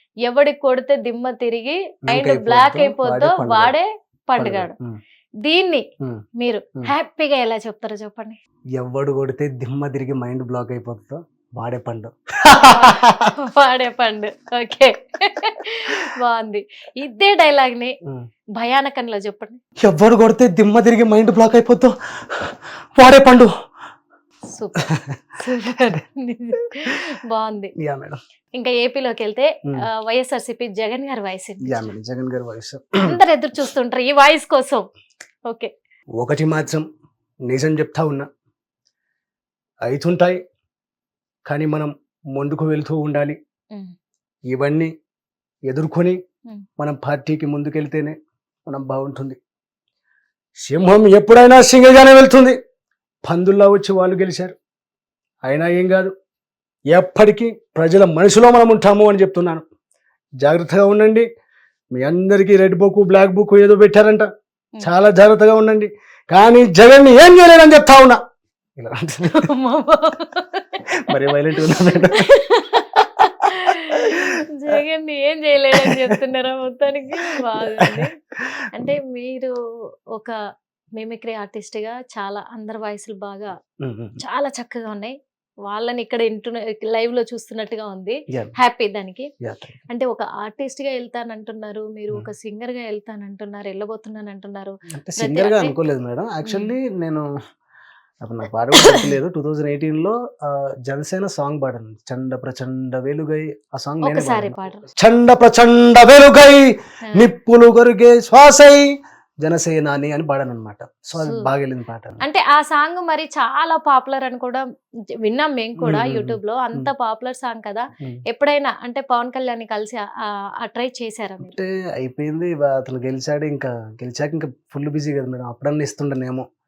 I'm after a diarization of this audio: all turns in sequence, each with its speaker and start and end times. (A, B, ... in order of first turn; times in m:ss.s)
0:00.3-0:04.7 A
0:02.1-0:03.7 B
0:04.4-0:05.0 B
0:05.4-0:05.8 A
0:06.4-0:08.4 A
0:08.8-0:13.2 B
0:12.6-0:17.9 A
0:18.6-0:19.6 A
0:19.8-0:21.9 B
0:23.0-0:23.5 B
0:24.5-0:24.8 A
0:25.4-0:27.7 A
0:27.8-0:28.2 B
0:28.6-0:29.5 A
0:30.0-0:31.9 A
0:31.6-0:33.2 B
0:33.0-0:34.8 A
0:36.2-0:36.8 B
0:37.5-0:38.3 B
0:39.8-0:40.4 B
0:41.4-0:43.4 B
0:44.5-0:44.9 B
0:45.7-0:46.2 B
0:46.8-0:48.2 B
0:48.7-0:49.4 B
0:50.6-0:52.6 B
0:53.2-0:54.5 B
0:55.4-0:56.1 B
0:56.9-0:59.6 B
1:00.4-1:01.3 B
1:01.9-1:04.3 B
1:04.8-1:08.2 B
1:08.8-1:09.5 B
1:09.4-1:10.8 A
1:11.1-1:12.2 B
1:12.2-1:18.1 A
1:15.8-1:16.2 B
1:18.7-1:19.5 A
1:21.0-1:23.5 A
1:23.8-1:24.2 B
1:24.2-1:25.2 A
1:25.7-1:29.3 A
1:29.4-1:29.8 B
1:29.9-1:35.7 A
1:34.9-1:37.2 B
1:36.4-1:36.7 A
1:38.2-1:48.9 B
1:44.0-1:44.8 A
1:49.4-1:52.2 B
1:52.2-1:54.6 A
1:55.2-2:00.1 A
1:55.8-1:56.9 B
2:00.6-2:01.5 A
2:01.4-2:06.4 B